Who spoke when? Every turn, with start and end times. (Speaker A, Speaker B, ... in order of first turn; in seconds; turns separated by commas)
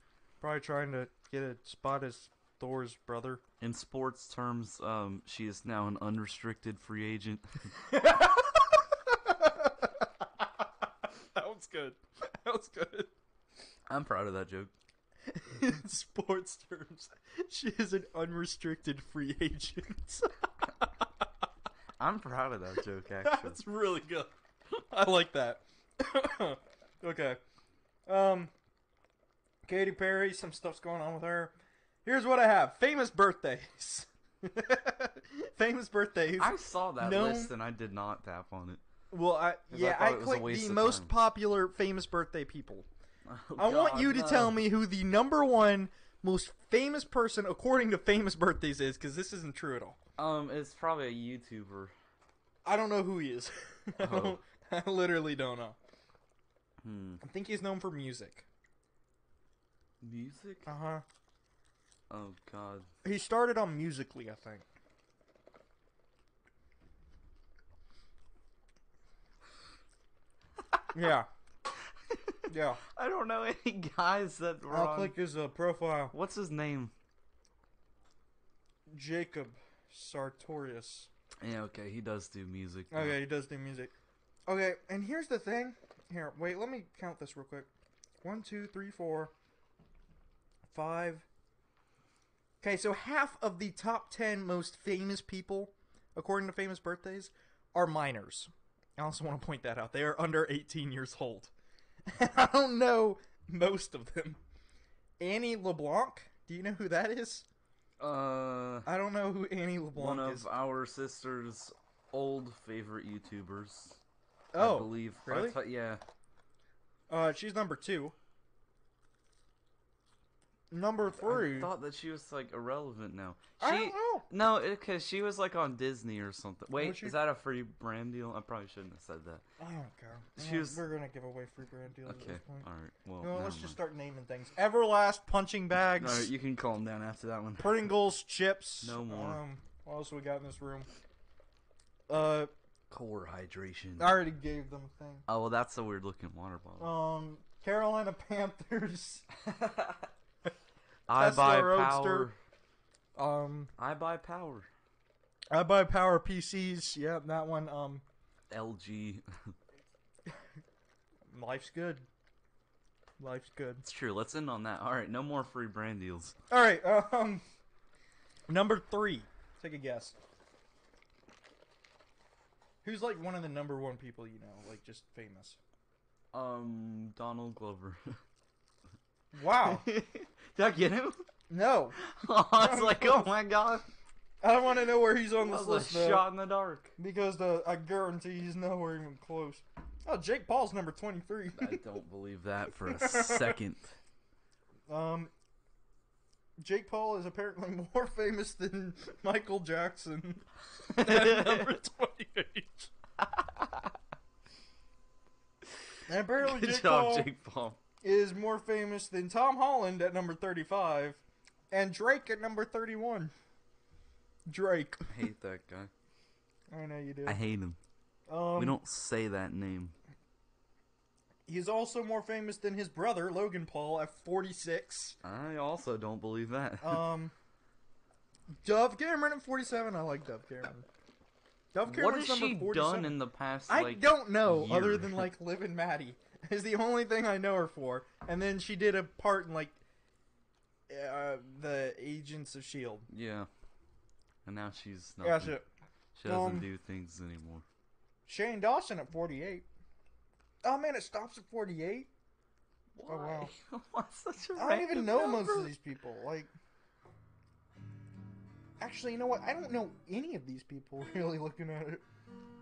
Speaker A: 0.4-3.4, Speaker B: 3.6-7.7, Speaker A: 7.8-10.5, Speaker A: 11.2-13.1, Speaker B: 13.9-14.7, Speaker A: 15.3-21.2, Speaker B: 22.0-23.6, Speaker A: 23.2-27.4, Speaker A: 28.1-28.5, Speaker A: 29.7-37.5, Speaker B: 36.4-38.8, Speaker A: 39.1-42.9, Speaker B: 39.7-41.1, Speaker B: 43.3-44.7, Speaker A: 43.6-50.0, Speaker B: 50.2-52.0, Speaker A: 52.6-55.8, Speaker B: 54.0-54.4, Speaker B: 56.8-57.2, Speaker A: 57.2-58.5, Speaker B: 60.0-60.7, Speaker A: 60.7-61.0, Speaker B: 62.1-62.9, Speaker A: 63.0-64.7, Speaker A: 70.9-71.3, Speaker B: 72.1-75.2, Speaker A: 72.5-72.8, Speaker A: 74.7-76.1, Speaker B: 76.1-76.9, Speaker A: 78.9-81.1, Speaker B: 81.4-83.2, Speaker A: 82.9-83.9, Speaker A: 84.5-87.7, Speaker A: 88.2-89.3, Speaker A: 90.7-91.2, Speaker A: 92.6-101.5, Speaker A: 102.0-104.4, Speaker A: 105.2-107.5, Speaker B: 108.0-108.9, Speaker A: 108.9-110.5, Speaker B: 110.0-114.0, Speaker A: 114.5-115.6, Speaker B: 114.6-116.0, Speaker A: 117.1-118.2, Speaker A: 120.7-121.7, Speaker B: 121.2-129.4, Speaker A: 123.6-124.3, Speaker A: 126.8-127.2, Speaker A: 129.6-132.7, Speaker B: 130.4-130.8, Speaker B: 132.1-133.8, Speaker A: 133.2-136.3, Speaker B: 136.0-137.9, Speaker A: 137.6-140.9, Speaker B: 138.8-139.4, Speaker A: 142.1-142.5, Speaker B: 142.9-144.2, Speaker A: 144.0-145.2, Speaker B: 145.3-146.9, Speaker A: 146.8-149.3, Speaker B: 149.5-150.1, Speaker B: 151.1-152.4, Speaker A: 151.2-152.3, Speaker A: 153.2-153.7, Speaker B: 153.8-154.7, Speaker A: 155.5-158.0, Speaker B: 158.5-159.2, Speaker A: 161.3-162.1, Speaker A: 163.2-163.8, Speaker B: 163.8-166.4, Speaker A: 166.5-167.4, Speaker A: 168.5-170.2, Speaker A: 172.8-175.6, Speaker B: 176.3-178.2, Speaker A: 179.3-179.9, Speaker B: 179.5-181.2, Speaker A: 181.5-182.0, Speaker B: 182.0-183.9, Speaker A: 182.6-183.3, Speaker A: 184.4-186.3, Speaker B: 185.4-186.9, Speaker A: 187.0-191.8, Speaker B: 191.6-194.0, Speaker A: 192.8-193.6, Speaker A: 194.9-195.3, Speaker A: 196.6-202.9, Speaker B: 200.9-201.8, Speaker B: 203.3-203.9, Speaker A: 206.1-207.3, Speaker B: 206.4-207.8, Speaker A: 208.0-213.3, Speaker A: 214.5-215.1, Speaker B: 215.1-215.9, Speaker A: 216.7-217.4, Speaker B: 217.3-217.8, Speaker A: 218.3-218.8, Speaker B: 218.6-219.9, Speaker A: 221.5-225.2, Speaker B: 225.2-227.1, Speaker A: 226.8-227.3, Speaker A: 228.6-230.9, Speaker A: 231.7-233.2, Speaker B: 231.8-235.3, Speaker A: 233.7-239.8, Speaker A: 240.9-243.1, Speaker B: 243.1-243.5, Speaker B: 244.4-245.6, Speaker A: 245.2-245.7, Speaker B: 246.2-247.6, Speaker A: 246.3-246.7, Speaker A: 248.3-249.7, Speaker A: 250.6-252.1, Speaker B: 252.9-255.7, Speaker A: 253.1-253.5, Speaker A: 254.6-256.5, Speaker A: 258.8-262.0